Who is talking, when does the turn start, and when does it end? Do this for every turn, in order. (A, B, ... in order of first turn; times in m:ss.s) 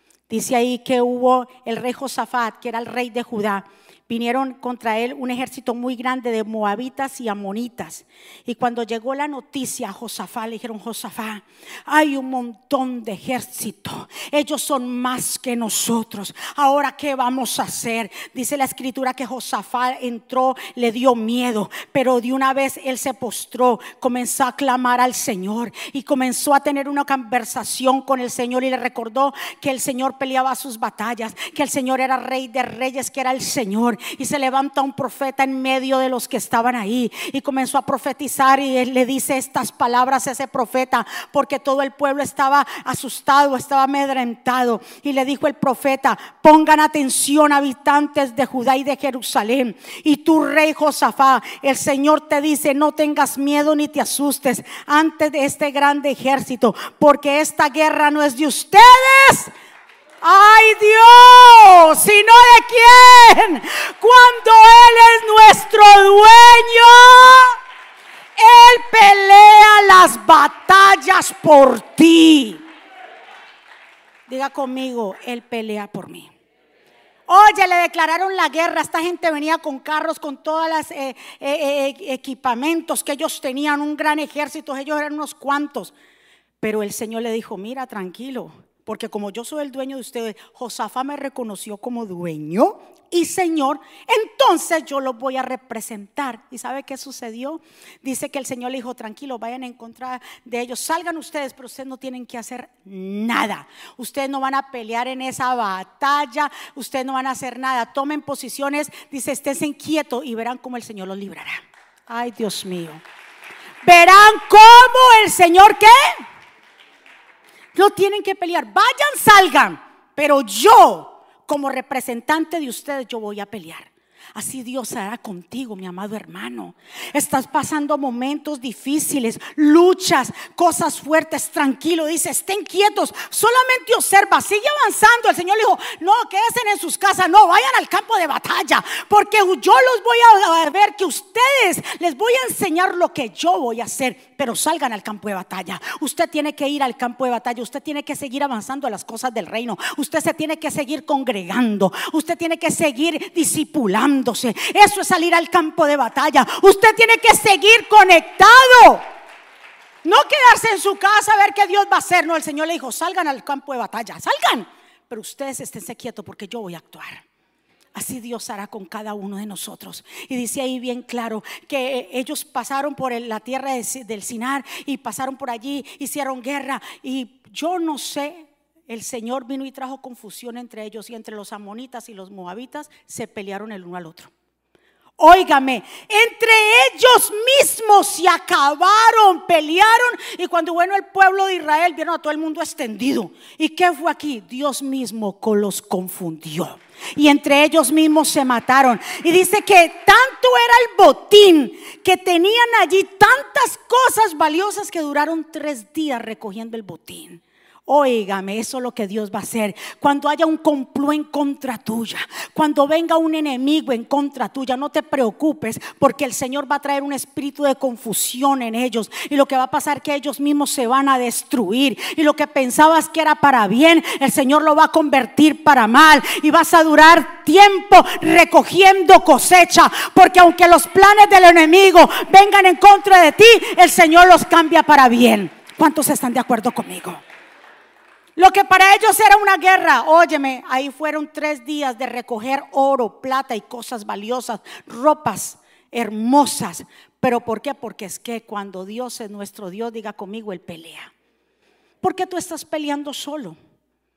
0:00.3-0:59.5 A
1:00.2-1:07.6 A
1:08.4-1:12.6 A
1:14.3-1:16.3 A
1:17.3-1:25.9 A
1:26.6-1:53.0 A
1:53.8-1:56.2 A
1:57.7-2:39.0 A
2:40.0-2:47.2 A
2:47.9-3:04.3 A
3:05.2-3:57.2 A
3:58.4-4:11.1 A
4:12.0-4:13.6 A